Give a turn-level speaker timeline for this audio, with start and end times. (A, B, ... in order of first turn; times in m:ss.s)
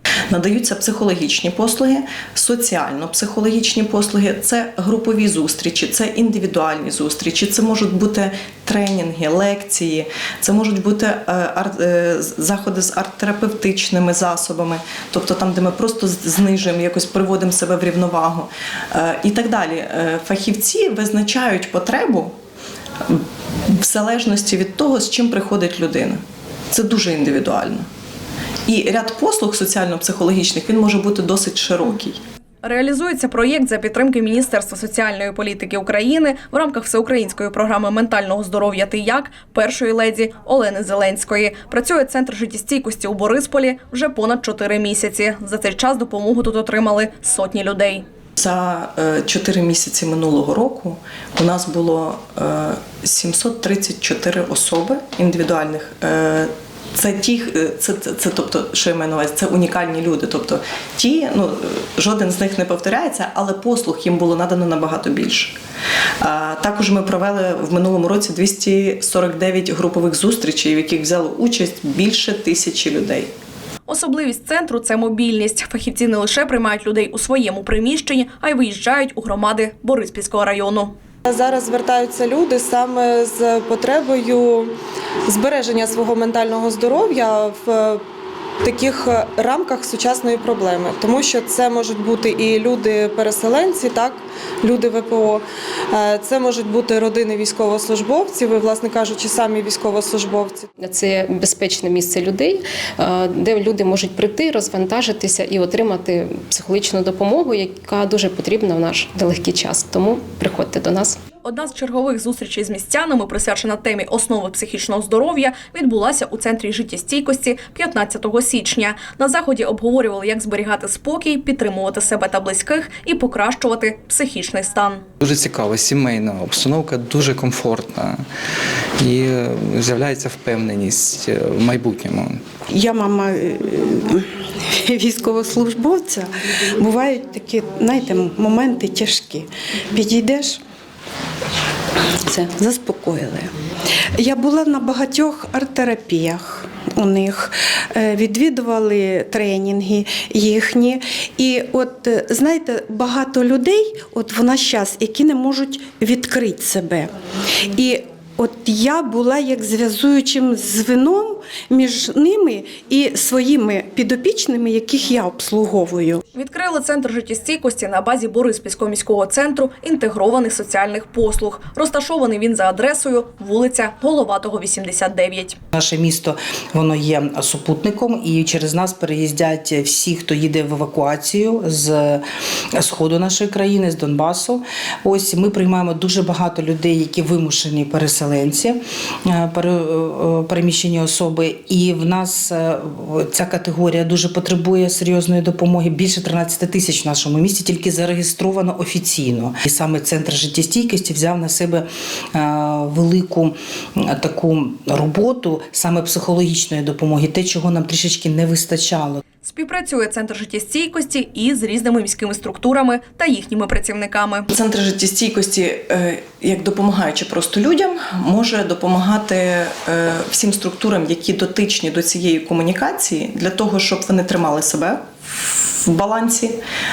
0:00.3-0:22.3 A
0:23.1-0:26.2 A
0:26.7-0:27.8 A
0:28.7-0:32.2 A
0:32.6-0:48.0 B
0:48.4-1:05.6 A
1:06.2-1:13.3 A
1:13.9-1:20.9 B
1:21.2-1:24.7 C
1:25.2-1:28.0 C
1:28.6-1:40.7 C
1:40.8-1:51.2 D
1:51.4-2:05.0 B
2:05.2-2:08.2 E
2:09.0-2:12.4 E
2:12.7-2:20.6 F
2:22.2-2:23.5 F
2:24.2-2:37.1 F
2:37.7-2:46.2 F
2:46.3-2:55.6 B
2:55.7-3:02.2 G
3:02.7-3:29.2 G
3:29.4-3:34.5 B
3:34.5-3:46.6 A